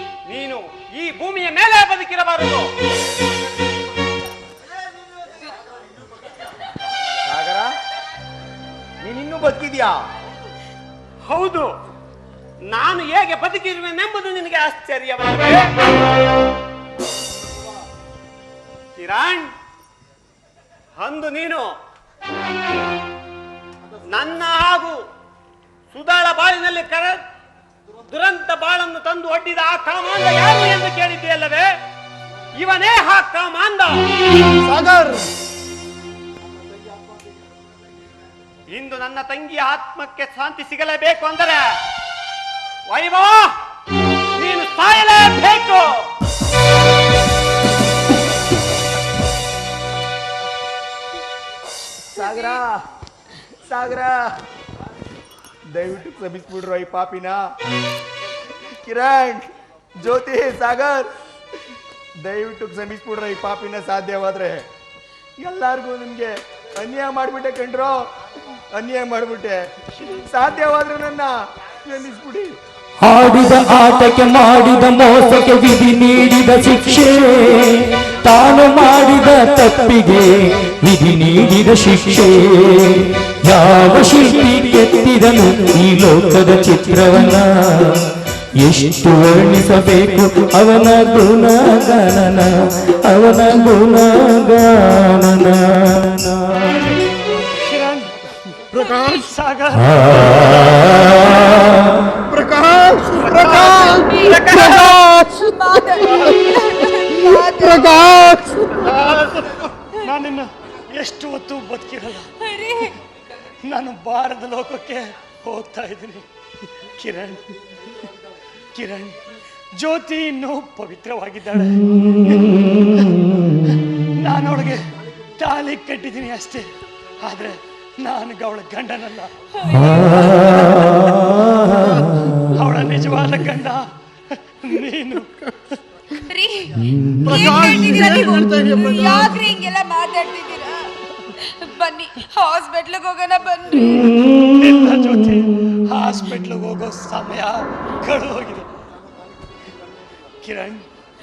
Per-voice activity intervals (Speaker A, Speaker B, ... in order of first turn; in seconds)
Speaker A: 0.2-2.7, 11.3-11.7, 12.7-15.7, 19.0-19.5, 21.0-21.7, 24.1-25.0, 25.9-27.2, 28.1-31.7, 32.6-34.0, 38.7-41.7, 42.9-43.5, 44.4-45.9, 103.4-104.0, 104.8-105.1
Speaker B: 7.2-7.7, 9.0-9.9, 52.1-52.7, 53.6-54.3, 55.7-57.4, 58.6-61.1, 62.2-64.7, 65.4-68.0, 68.7-71.3, 71.8-72.5
Speaker C: 34.6-35.3, 98.8-99.2, 102.3-105.3, 107.1-109.5, 137.2-139.4
Speaker D: 52.2-52.5, 103.5-108.7, 112.4-113.0, 129.7-130.4, 136.3-144.2
Speaker E: 73.0-97.0, 99.8-102.0, 136.9-137.3
Speaker F: 97.5-98.1, 98.7-100.8, 104.1-104.7, 110.0-112.3, 113.6-116.2, 116.8-117.5, 118.7-119.2, 119.8-131.8, 132.5-133.9, 134.4-135.3, 144.5-148.7, 150.4-150.9